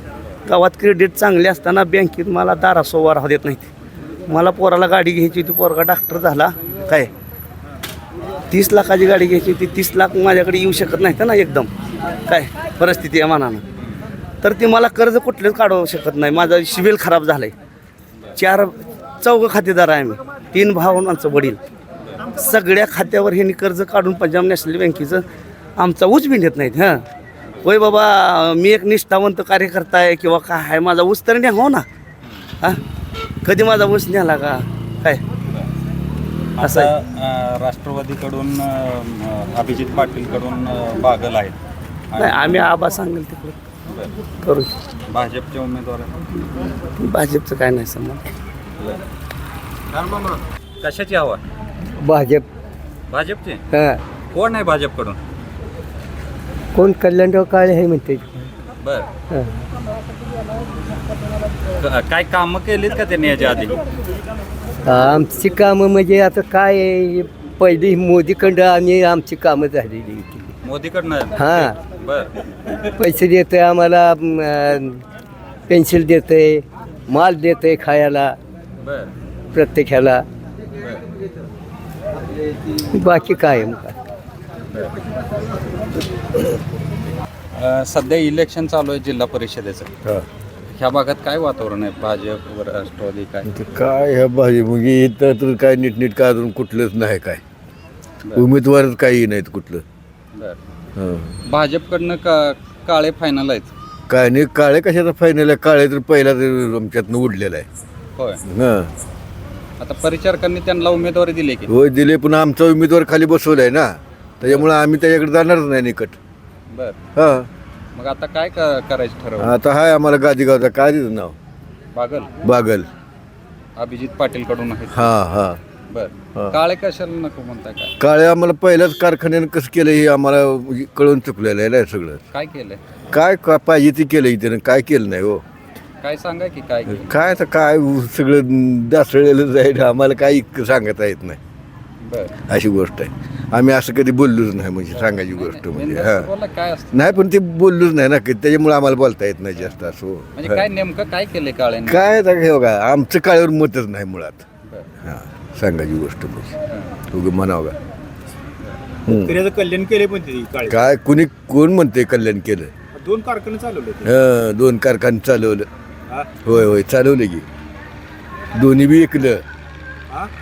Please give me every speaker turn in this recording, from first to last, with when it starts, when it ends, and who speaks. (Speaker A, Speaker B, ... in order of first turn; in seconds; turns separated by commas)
Speaker A: 0.5-3.7, Speaker A: 4.3-7.1, Speaker A: 8.5-11.7, Speaker A: 12.3-13.6, Speaker A: 14.4-17.5, Speaker A: 18.4-21.6, Speaker A: 22.4-25.2, Speaker A: 25.8-27.0, Speaker A: 27.6-31.8, Speaker A: 33.4-35.2, Speaker B: 36.6-41.5, Speaker A: 36.6-36.9, Speaker B: 42.1-42.6, Speaker A: 42.1-43.5, Speaker A: 44.4-44.7, Speaker B: 45.1-46.1, Speaker A: 47.0-48.2, Speaker B: 50.8-51.4, Speaker C: 52.0-52.5, Speaker B: 53.1-53.6, Speaker C: 53.7-54.0, Speaker B: 54.3-55.2, Speaker C: 56.7-58.5, Speaker B: 58.8-59.1, Speaker B: 61.8-63.8, Speaker C: 64.8-70.5, Speaker B: 70.6-72.3, Speaker C: 71.4-71.8, Speaker C: 73.0-75.0, Speaker C: 75.7-78.4, Speaker B: 78.8-79.1, Speaker C: 79.5-80.2, Speaker C: 82.9-83.9, Speaker B: 87.5-89.9, Speaker B: 90.7-93.6, Speaker D: 93.5-97.4, Speaker D: 98.3-99.8, Speaker D: 101.0-101.3, Speaker B: 101.5-103.7, Speaker D: 104.1-107.7, Speaker D: 108.5-108.9, Speaker B: 109.8-111.7, Speaker D: 111.7-116.2, Speaker B: 114.4-114.7, Speaker B: 116.7-117.0, Speaker D: 117.2-117.5, Speaker B: 118.0-119.6, Speaker D: 119.4-121.3, Speaker B: 121.9-122.3, Speaker D: 122.4-122.9, Speaker B: 123.8-125.2, Speaker D: 124.9-125.6, Speaker B: 125.9-127.9, Speaker D: 128.0-132.2, Speaker B: 132.3-132.8, Speaker D: 133.1-135.4, Speaker B: 136.0-137.2, Speaker D: 136.9-141.4, Speaker B: 142.0-142.4, Speaker D: 142.5-146.3, Speaker B: 144.9-147.2, Speaker D: 146.9-150.6, Speaker B: 150.3-152.2, Speaker D: 151.8-154.4, Speaker B: 154.7-154.9, Speaker D: 155.0-156.5, Speaker D: 157.1-157.8, Speaker D: 159.1-159.4, Speaker E: 159.2-160.6, Speaker D: 160.6-162.7, Speaker E: 163.0-164.1, Speaker D: 164.0-165.7, Speaker D: 166.4-167.4, Speaker D: 168.5-169.4